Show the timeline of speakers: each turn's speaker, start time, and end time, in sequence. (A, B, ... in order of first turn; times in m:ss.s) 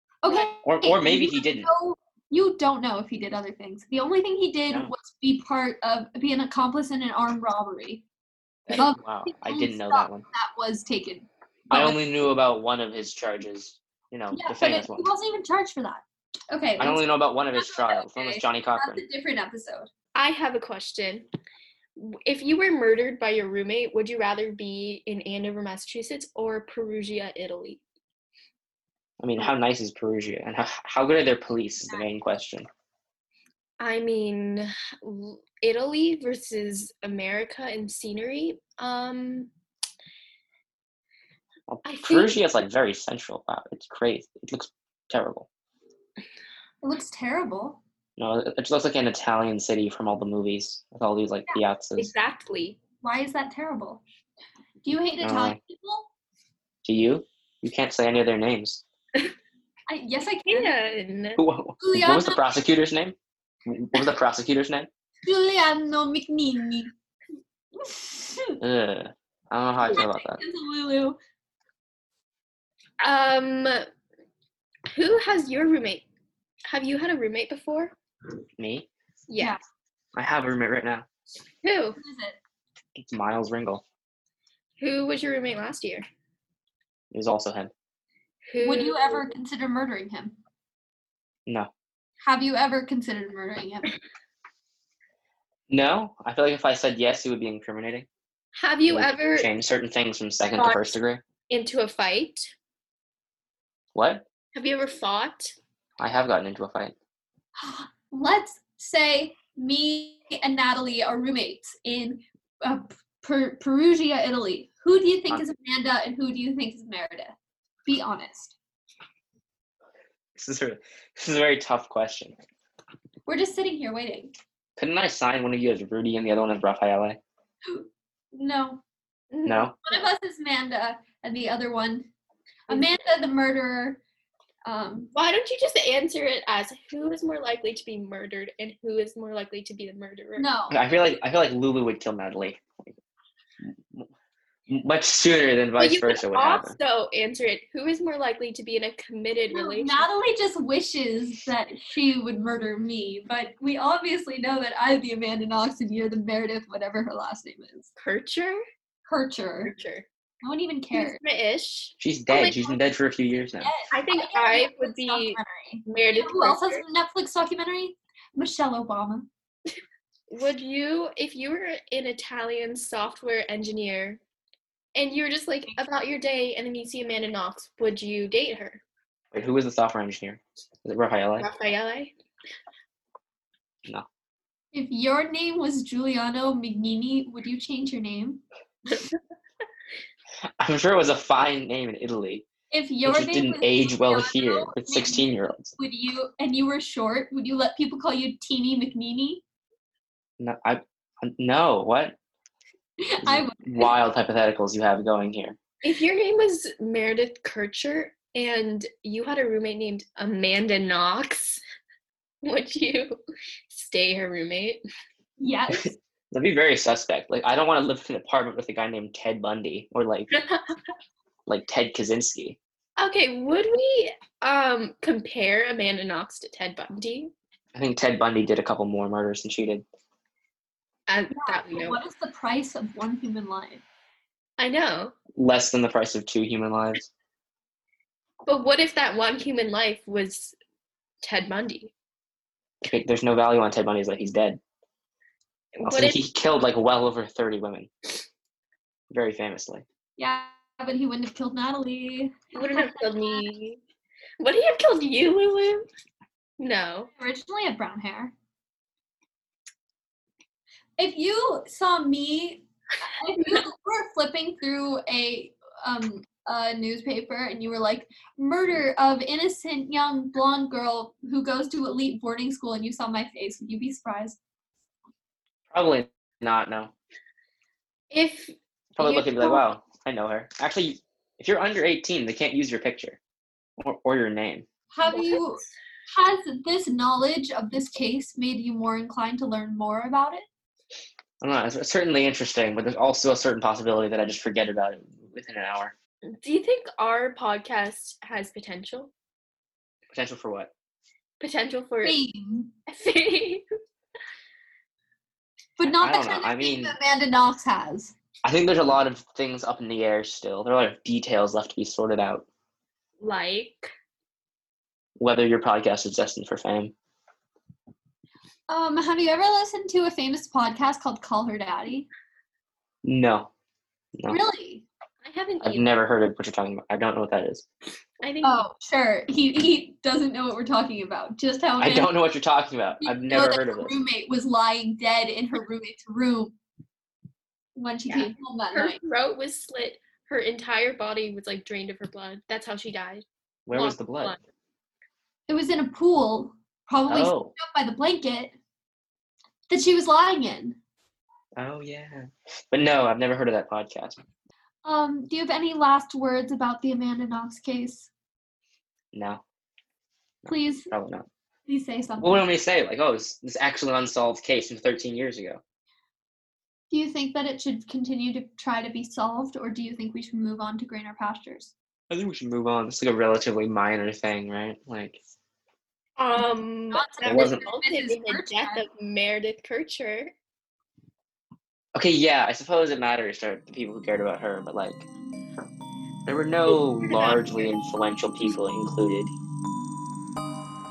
0:00.2-0:08.0 A
0:00.6-0:01.7 B
0:08.7-0:10.2 B
0:08.7-0:12.0 A
0:11.7-0:15.1 B
0:14.3-0:17.0 A
0:16.8-0:19.0 B
0:17.5-0:19.9 A
0:20.2-0:21.3 C
0:22.0-0:27.8 C
0:29.2-0:32.7 B
0:33.8-0:39.5 C
0:41.7-0:45.5 B
0:41.8-0:42.3 C
0:46.8-0:47.8 A
0:48.2-0:52.1 B
0:52.0-0:52.8 C
0:53.0-0:54.0 A
0:54.8-0:56.1 A
0:55.2-0:55.6 B
0:56.8-0:58.8 B
0:59.9-1:00.7 A
1:00.5-1:01.4 C
1:01.4-1:04.9 B
1:01.8-1:02.4 A
1:05.3-1:06.9 A
1:07.8-1:08.6 A
1:08.6-1:10.4 B
1:09.9-1:11.2 A
1:13.0-1:13.8 C
1:14.9-1:16.0 C
1:16.7-1:18.0 C
1:18.6-1:18.9 B
1:19.3-1:19.6 C
1:20.2-1:21.1 B
1:21.6-1:22.0 C
1:22.0-1:22.4 A
1:23.0-1:23.8 B
1:24.8-1:26.0 C
1:27.1-1:27.7 B
1:28.5-1:29.3 C
1:28.6-1:30.4 A
1:32.2-1:33.9 A
1:35.7-1:38.1 B
1:38.6-1:39.5 C
1:38.9-1:41.2 B
1:40.6-1:41.0 C
1:41.5-1:42.5 C
1:44.0-1:44.2 B
1:44.5-1:45.6 C
1:46.0-1:47.0 B
1:47.6-1:58.6 A
2:00.4-2:02.4 B
2:03.3-2:04.3 A
2:04.8-2:07.2 B
2:07.7-2:08.8 A
2:09.3-2:10.1 C
2:09.5-2:09.7 B
2:09.9-2:12.1 A
2:12.7-2:14.0 A
2:14.7-2:15.1 A
2:15.1-2:20.5 C
2:20.4-2:20.8 A
2:20.7-2:23.0 B
2:23.6-2:24.1 B
2:24.7-2:26.8 B
2:25.8-2:30.1 C
2:29.5-2:37.9 A
2:38.0-2:38.6 C
2:39.1-2:39.7 A
2:39.6-2:40.1 C
2:40.4-2:41.2 A
2:40.9-2:42.8 C
2:42.0-2:43.7 B
2:43.6-2:49.3 A
2:43.9-2:46.8 C
2:50.3-2:54.2 C
2:55.0-2:58.8 C
2:59.3-3:01.5 B
3:01.4-3:02.1 C
3:04.7-3:08.4 A
3:10.6-3:12.5 B
3:12.7-3:19.4 A
3:13.0-3:15.7 B
3:20.4-3:22.2 B
3:23.0-3:23.9 A
3:23.2-3:25.6 B
3:25.8-3:31.6 C
3:32.4-3:33.2 C
3:33.7-3:34.8 C
3:35.4-3:36.0 A
3:35.7-3:40.3 B
3:40.3-3:40.8 C
3:41.5-3:42.6 B
3:43.0-3:47.3 C
3:47.7-3:49.8 B
3:51.1-3:52.0 C
3:51.3-3:53.8 A
3:54.6-3:55.2 C
3:55.4-3:57.1 B
3:58.4-4:00.6 C
4:01.2-4:01.9 C
4:02.8-4:04.6 B
4:05.8-4:06.2 C
4:05.8-4:07.9 B
4:09.1-4:09.8 B
4:10.2-4:13.5 A
4:12.5-4:13.8 C
4:14.4-4:15.9 C
4:16.6-4:17.1 C
4:17.2-4:18.3 A
4:21.0-4:34.4 A
4:35.7-4:36.9 B
4:38.1-4:39.7 C
4:39.0-4:43.2 B
4:43.8-4:44.7 B
4:44.9-4:50.4 A
4:45.0-4:45.6 C
4:51.4-4:55.9 B
4:56.3-4:59.1 C
5:00.1-5:00.7 B
5:01.4-5:02.2 C
5:02.0-5:02.7 A
5:02.9-5:03.6 C
5:05.8-5:08.2 A
5:05.8-5:07.0 B
5:08.4-5:12.5 B
5:13.2-5:13.9 C
5:15.2-5:16.9 B
5:18.7-5:22.1 A
5:23.0-5:23.5 B
5:24.2-5:24.4 B
5:24.3-5:24.8 A
5:25.2-5:25.9 C
5:25.6-5:27.7 B
5:28.2-5:28.7 C
5:28.4-5:32.1 A
5:31.8-5:34.0 B
5:33.0-5:36.6 A
5:37.8-5:39.0 A
5:38.1-5:44.4 C
5:43.7-5:44.4 B
5:45.5-5:48.5 A
5:47.1-5:47.5 B
5:49.7-5:50.8 A
5:51.6-5:54.2 B
5:54.8-5:58.1 A
5:59.1-5:59.4 B
6:00.4-6:01.3 B
6:00.5-6:00.9 A
6:01.7-6:02.4 A
6:02.2-6:05.6 B
6:06.9-6:11.7 A
6:12.1-6:15.2 B
6:16.2-6:20.3 C
6:16.9-6:18.8 A
6:17.2-6:17.6 B
6:22.0-6:25.1 B
6:26.3-6:29.3 B
6:27.0-6:27.7 C